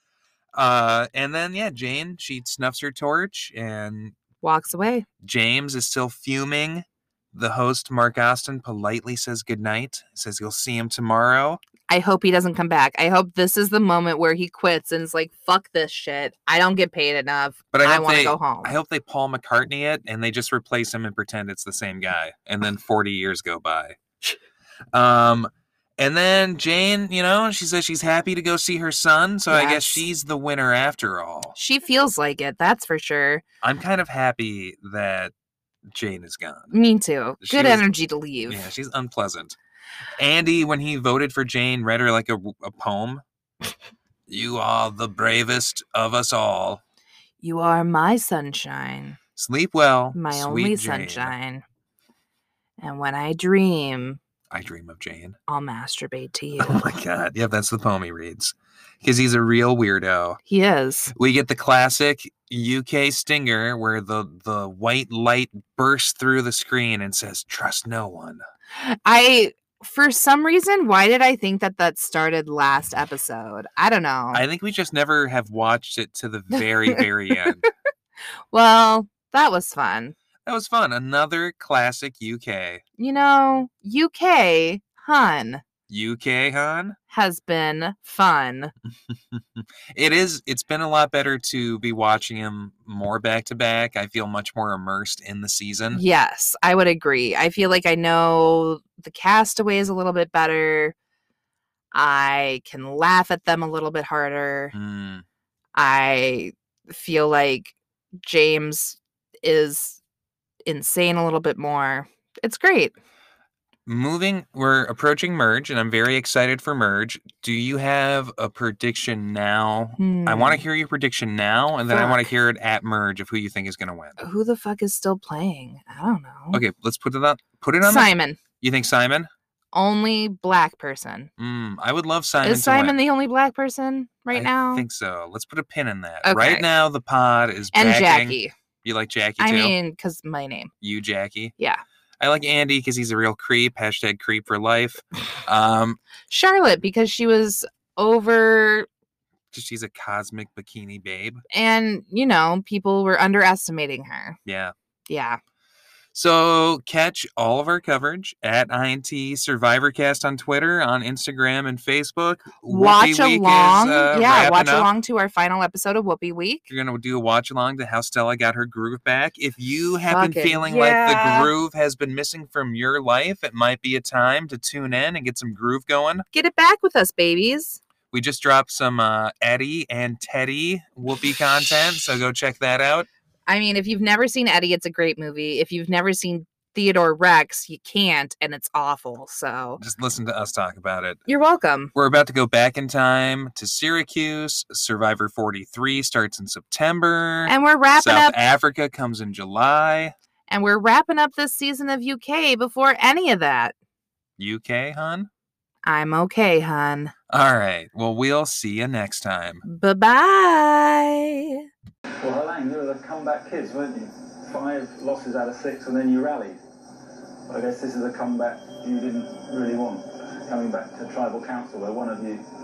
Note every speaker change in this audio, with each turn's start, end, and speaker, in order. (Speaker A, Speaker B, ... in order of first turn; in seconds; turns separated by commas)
Speaker A: 0.5-4.2, Speaker B: 4.4-5.1, Speaker A: 5.2-11.6, Speaker B: 11.9-18.7, Speaker A: 17.7-24.0, Speaker A: 24.9-31.6, Speaker B: 29.5-30.0, Speaker B: 31.6-33.4, Speaker A: 33.6-35.3, Speaker A: 35.9-36.7, Speaker B: 36.7-38.7, Speaker A: 37.4-37.9, Speaker A: 38.5-39.6, Speaker A: 40.2-43.2, Speaker A: 44.3-46.8, Speaker B: 47.4-49.2, Speaker A: 49.4-51.3, Speaker B: 50.1-51.6, Speaker B: 52.8-54.2, Speaker A: 54.5-55.4, Speaker B: 55.5-56.8, Speaker A: 56.6-60.4, Speaker B: 60.5-61.1, Speaker A: 61.1-68.4, Speaker B: 68.7-74.4, Speaker A: 74.3-77.6, Speaker B: 78.5-80.2, Speaker A: 80.5-82.8, Speaker B: 83.0-85.6, Speaker A: 85.9-87.0, Speaker B: 87.1-88.7, Speaker A: 89.1-96.0, Speaker B: 95.9-101.0, Speaker B: 101.9-104.7, Speaker A: 104.7-105.2, Speaker B: 105.8-110.0, Speaker B: 110.7-112.9, Speaker A: 113.9-124.2, Speaker B: 120.0-120.6, Speaker B: 121.9-122.3, Speaker B: 124.2-126.6, Speaker A: 126.5-129.3, Speaker B: 127.8-128.4, Speaker B: 129.7-131.3, Speaker A: 131.4-133.0, Speaker B: 132.4-134.8, Speaker A: 134.3-139.7, Speaker B: 136.2-136.7, Speaker B: 137.7-138.5, Speaker B: 139.4-140.7, Speaker A: 140.8-141.5, Speaker A: 142.2-146.0, Speaker B: 146.3-148.9, Speaker A: 149.5-151.4, Speaker B: 151.5-154.4, Speaker A: 154.5-154.7, Speaker B: 155.1-155.4, Speaker A: 156.1-164.9, Speaker B: 162.7-166.7, Speaker A: 166.7-176.2, Speaker B: 170.1-171.5, Speaker B: 176.3-177.8, Speaker A: 178.1-183.1, Speaker B: 183.5-189.8, Speaker A: 189.8-191.2, Speaker B: 191.3-191.9, Speaker A: 191.9-200.1, Speaker B: 197.5-198.4, Speaker B: 200.5-203.7, Speaker A: 204.4-205.3, Speaker B: 205.8-207.1, Speaker A: 207.3-209.6, Speaker B: 209.7-211.7, Speaker C: 212.2-216.6, Speaker C: 217.5-222.4